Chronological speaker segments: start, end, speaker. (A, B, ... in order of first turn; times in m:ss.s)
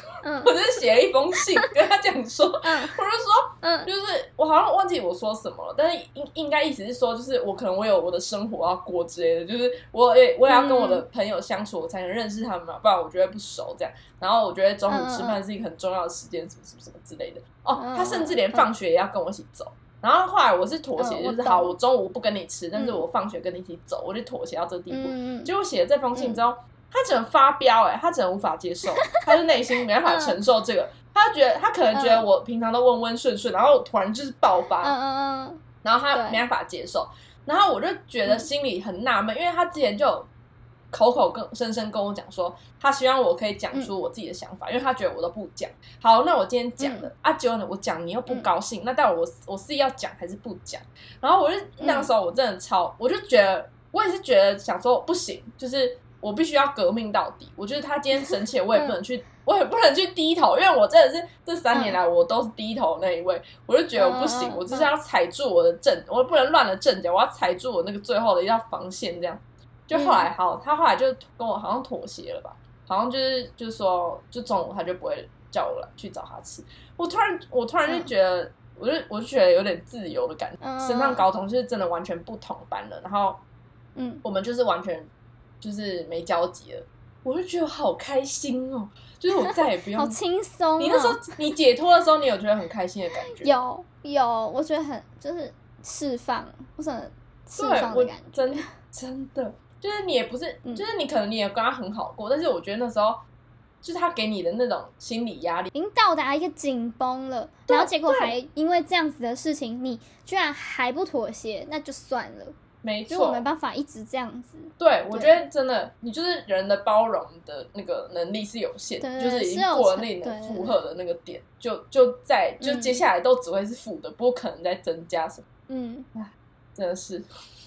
0:00.2-0:00.5 A
0:00.4-0:34.9 B
0:02.6-0:02.9 A
0:03.6-0:03.9 A
0:10.4-0:11.0 A
0:14.9-0:15.4 A
0:17.7-0:18.7 A
0:21.0-0:21.7 A
0:22.7-0:23.0 A
0:24.9-0:25.5 A
0:26.1-0:26.4 A
0:30.0-0:30.4 A
0:31.9-0:32.2 A
0:34.8-0:35.6 A
0:35.8-0:40.3 B
0:36.1-0:36.4 A
0:40.9-1:23.4 B
0:46.8-0:47.1 A
0:51.8-0:52.1 A
1:01.7-1:02.0 A
1:04.0-1:04.9 A
1:09.9-1:10.3 A
1:20.6-1:21.2 A
1:24.0-1:24.2 A
1:24.2-1:25.1 B
1:25.6-1:30.2 B
1:29.9-1:31.2 A
1:30.8-1:33.5 B
1:33.4-1:38.7 A
1:37.6-1:43.2 B
1:43.8-1:45.7 B
1:45.7-1:52.5 A
1:47.7-1:48.3 B
1:52.8-1:53.4 B
1:53.1-1:55.4 A
1:54.8-2:05.4 B
1:59.0-2:00.8 A
2:02.6-2:03.0 A
2:05.7-2:06.1 A
2:06.1-2:07.2 B